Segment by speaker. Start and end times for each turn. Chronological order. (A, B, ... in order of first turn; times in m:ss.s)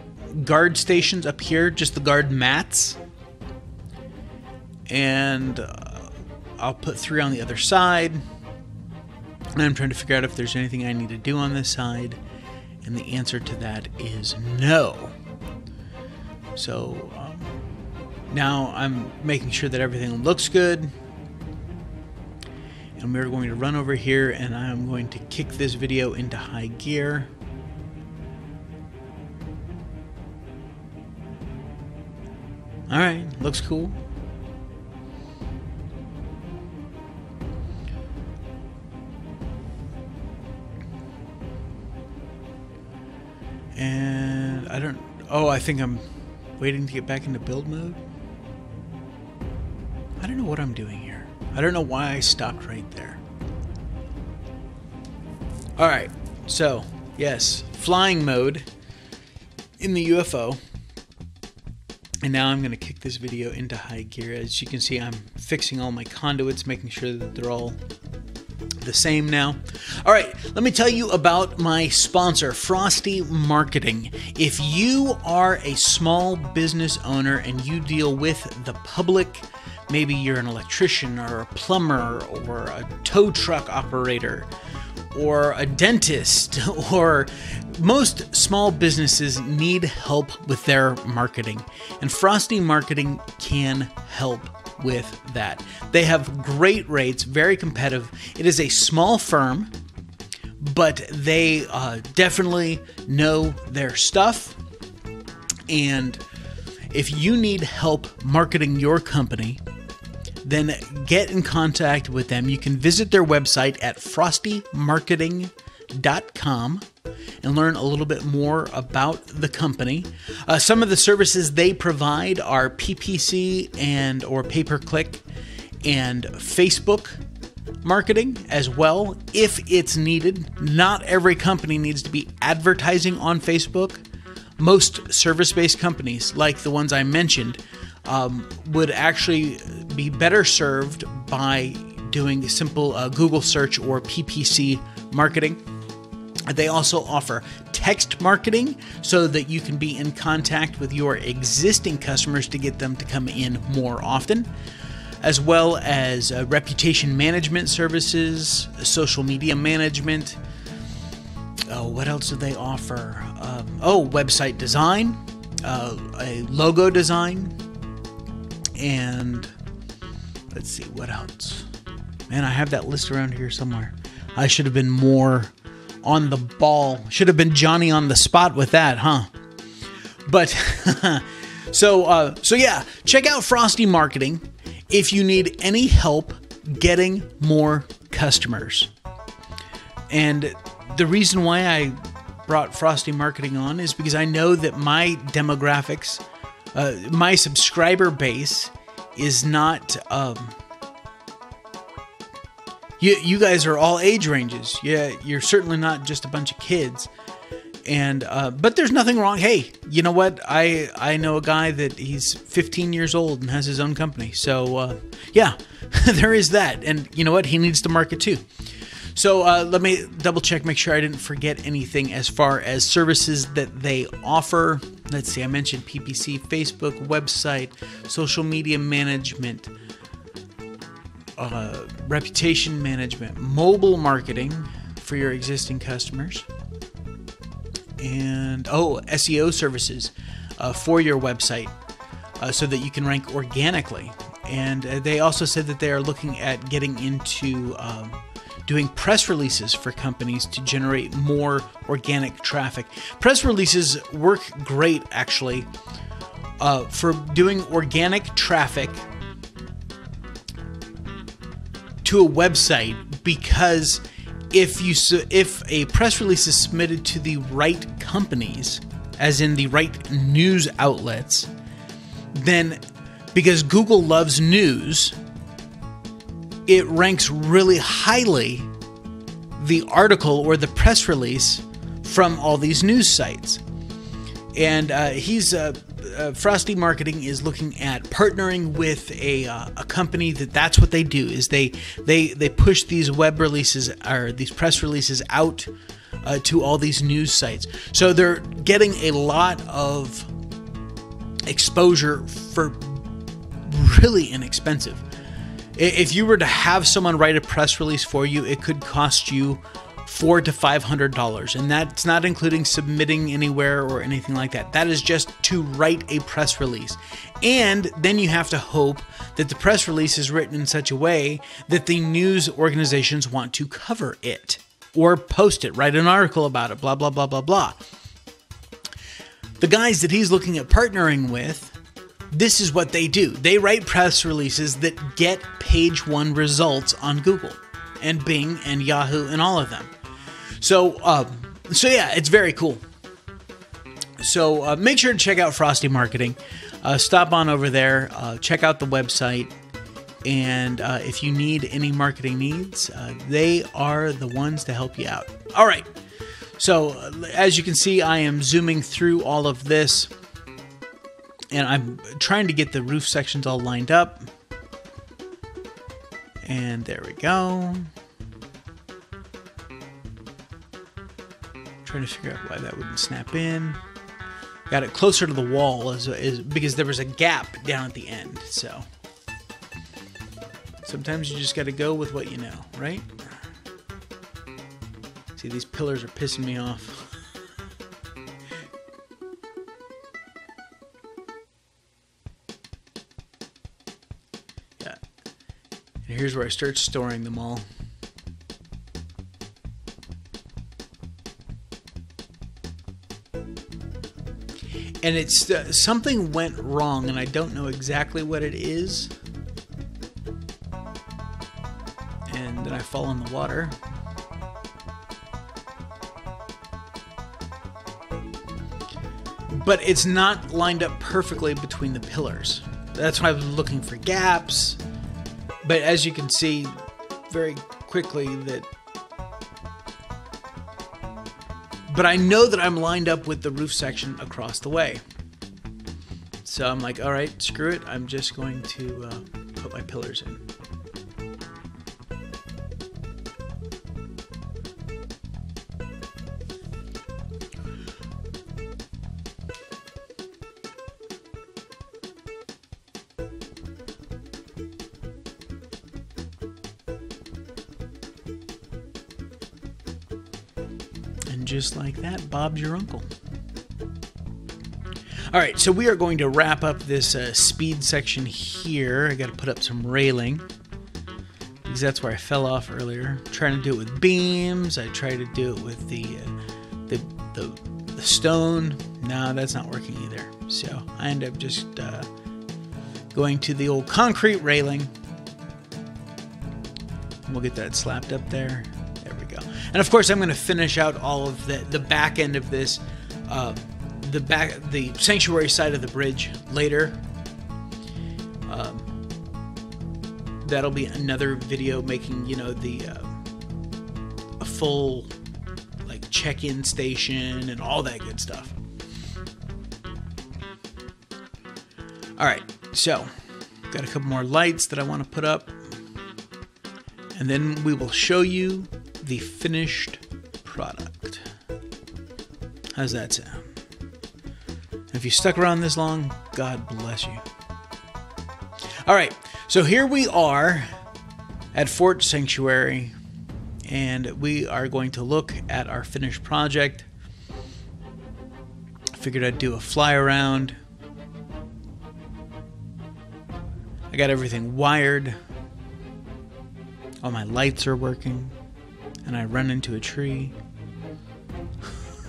0:00.3-0:03.0 A
0:04.9-0:08.2 A
0:09.6-0:12.2 A
0:12.8-0:15.1 A
0:16.6-0:17.6 A
0:18.3-0:20.9 A
0:23.0-0:27.3 A
0:32.9-0:34.0 A
0:43.7-0:46.0 A
0:46.6-0:48.0 A
0:50.2-0:53.2 A
0:55.8-0:58.7 A
0:59.8-1:00.6 A
1:02.2-1:07.8 A
1:08.8-1:24.5 A
1:25.1-1:39.7 A
1:40.6-1:44.6 A
1:45.7-1:46.2 A
1:46.9-1:49.6 A
1:50.4-1:56.8 A
1:57.4-2:05.2 A
2:05.8-2:07.2 A
2:07.8-2:14.0 A
2:14.6-2:25.6 A
2:26.5-2:34.5 A
2:35.2-2:40.4 A
2:41.7-2:47.6 A
2:48.7-2:49.5 A
2:50.5-2:51.7 A
2:52.3-2:59.3 A
3:00.3-3:08.9 A
3:10.1-3:16.2 A
3:16.7-3:20.6 A
3:23.0-3:27.1 A
3:27.8-3:38.5 A
3:39.1-3:49.7 A
3:51.4-3:56.5 A
3:58.0-4:01.7 A
4:02.4-4:15.7 A
4:16.6-4:19.0 A
4:22.0-4:31.5 A
4:32.3-4:32.8 A
4:33.3-4:35.2 A
4:36.7-4:38.7 A
4:39.6-4:43.6 A
4:44.5-4:55.7 A
4:56.2-5:00.3 A
5:01.4-5:03.0 A
5:03.6-5:05.0 A
5:05.7-5:27.8 A
5:29.6-5:31.7 A
5:32.3-5:39.9 A
5:40.6-5:42.8 A
5:44.2-5:49.5 A
5:50.2-5:55.9 A
5:56.6-6:00.1 A
6:01.5-6:04.3 A
6:06.4-6:07.9 A
6:11.8-6:13.8 A
6:14.7-6:18.8 A
6:20.8-6:23.2 A
6:25.3-6:27.1 A
6:36.0-6:37.6 A
6:45.0-6:49.1 A
6:52.3-6:53.8 A
6:59.5-7:04.8 A
7:05.6-7:06.7 A
7:07.3-7:08.7 A
7:11.9-7:15.0 A
7:16.4-7:20.4 A
7:41.3-7:43.1 A
7:45.3-7:50.4 A
7:51.6-7:56.3 A
7:56.9-8:02.1 A
8:03.1-8:04.9 A
8:07.2-8:17.0 A
8:18.5-8:18.9 A
8:20.4-8:23.2 A
8:24.4-8:25.1 A
8:25.8-8:28.5 A
8:32.2-8:33.1 A
8:33.7-8:35.6 A
8:37.1-8:41.2 A
8:42.7-8:43.5 A
8:44.9-8:47.2 A
8:48.8-8:50.7 A
8:51.5-8:52.9 A
8:53.7-8:56.9 A
8:58.9-9:00.6 A
9:03.9-9:05.2 A
9:07.0-9:08.4 A
9:09.0-9:10.4 A